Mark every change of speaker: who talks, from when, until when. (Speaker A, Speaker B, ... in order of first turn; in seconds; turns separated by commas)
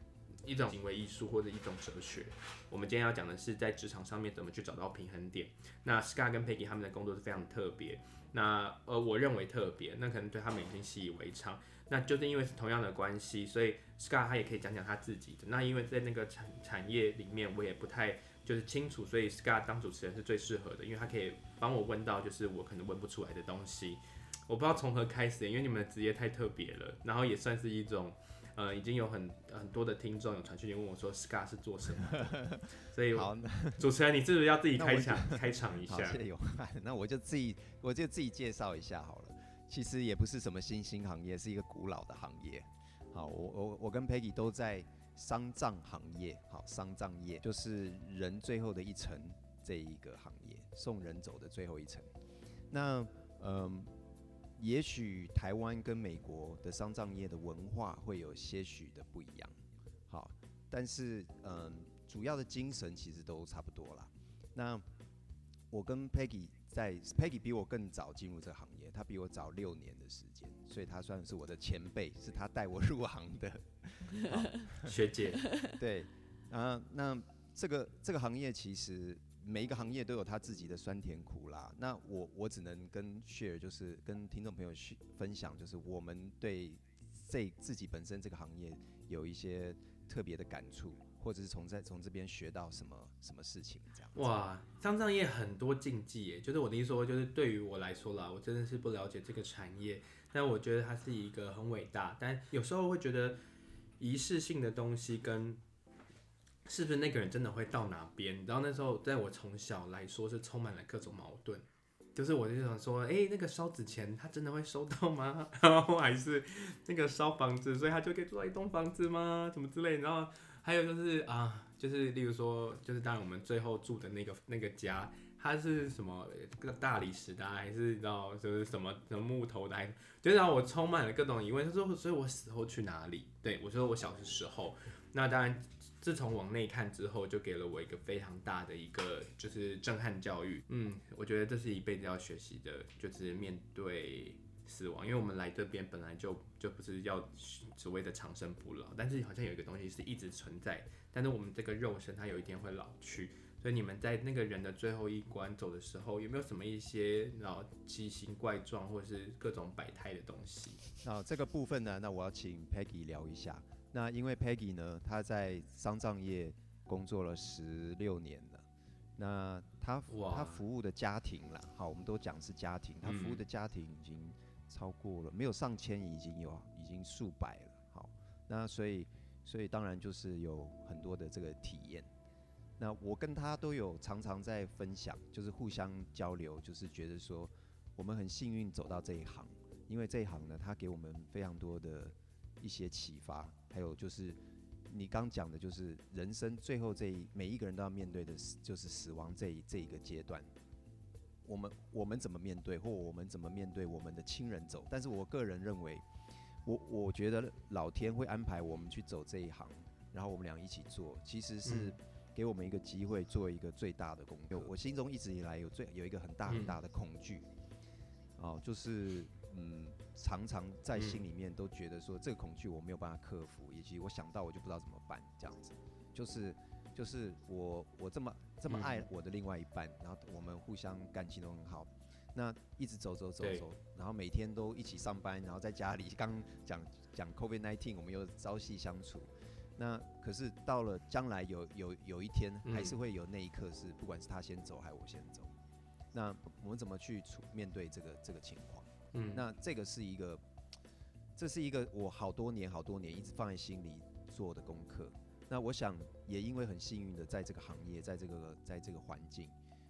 Speaker A: 0.4-36.2, Speaker B: 32.2-33.9, Speaker B: 34.7-52.1, Speaker B: 52.7-53.9, Speaker B: 54.6-59.6, Speaker B: 60.1-64.8, Speaker B: 65.7-75.0, Speaker A: 74.8-75.4, Speaker B: 75.7-94.3, Speaker A: 94.1-103.4, Speaker A: 104.0-105.6, Speaker A: 106.7-160.8, Speaker B: 161.0-168.7, Speaker B: 169.2-182.1, Speaker A: 170.1-170.6, Speaker A: 173.0-173.4, Speaker B: 182.8-200.5, Speaker B: 201.4-206.0, Speaker B: 206.6-217.5, Speaker A: 211.6-211.9, Speaker A: 216.5-216.8, Speaker B: 218.4-245.5, Speaker A: 220.9-221.2, Speaker A: 228.7-229.1, Speaker A: 242.6-242.9, Speaker B: 246.1-250.4, Speaker A: 249.1-249.4, Speaker B: 251.3-259.5